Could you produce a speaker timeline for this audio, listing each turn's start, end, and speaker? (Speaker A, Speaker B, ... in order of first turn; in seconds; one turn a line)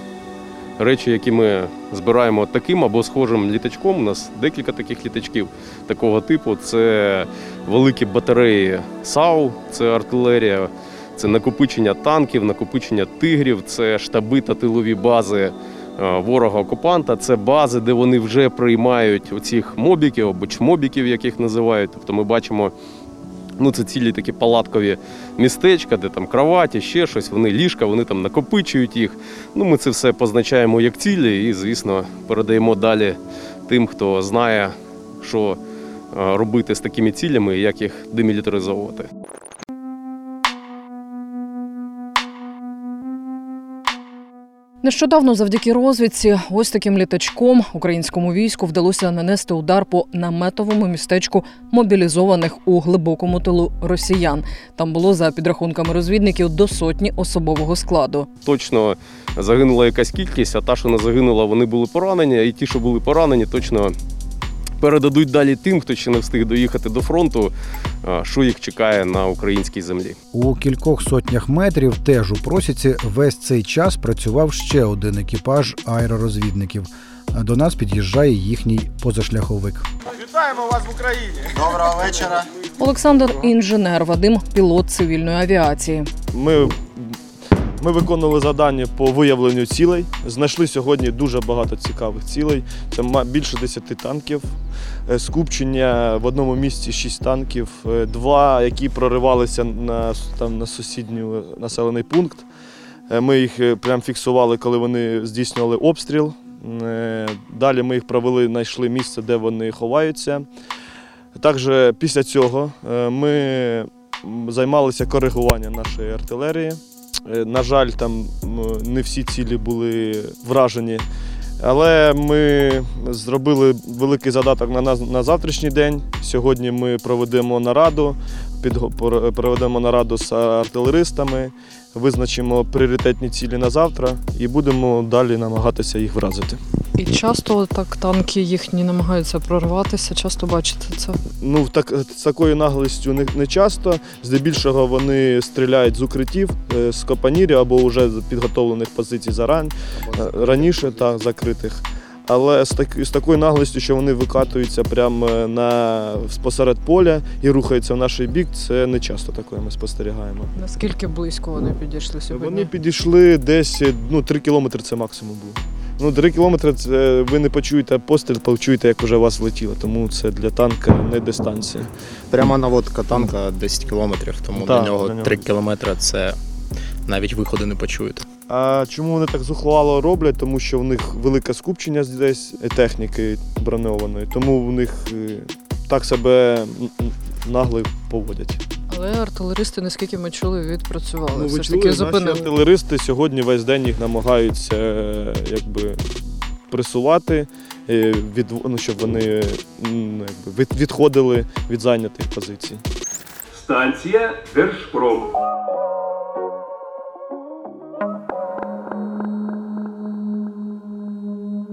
Speaker A: 0.8-22.7
Speaker A: 23.6-35.6
Speaker A: 36.1-39.1
Speaker B: 44.8-58.3
Speaker A: 58.4-64.0
Speaker A: 64.8-67.5
Speaker A: 68.0-70.2
Speaker C: 70.3-79.8
Speaker D: 80.1-82.4
Speaker B: 82.8-86.1
Speaker D: 86.3-87.2
Speaker D: 87.8-94.5
Speaker D: 95.1-102.5
Speaker D: 103.1-110.5
Speaker D: 111.3-121.0
Speaker D: 121.6-136.6
Speaker B: 137.0-141.2
Speaker D: 141.4-160.5
Speaker E: 150.1-151.0
Speaker B: 160.6-162.7
Speaker D: 162.3-171.9
Speaker E: 172.3-176.4
Speaker D: 174.5-175.4
Speaker E: 177.0-178.2
Speaker D: 178.5-188.6
Speaker B: 188.9-192.5
Speaker D: 191.3-196.0
Speaker D: 196.7-202.8
Speaker B: 203.5-205.3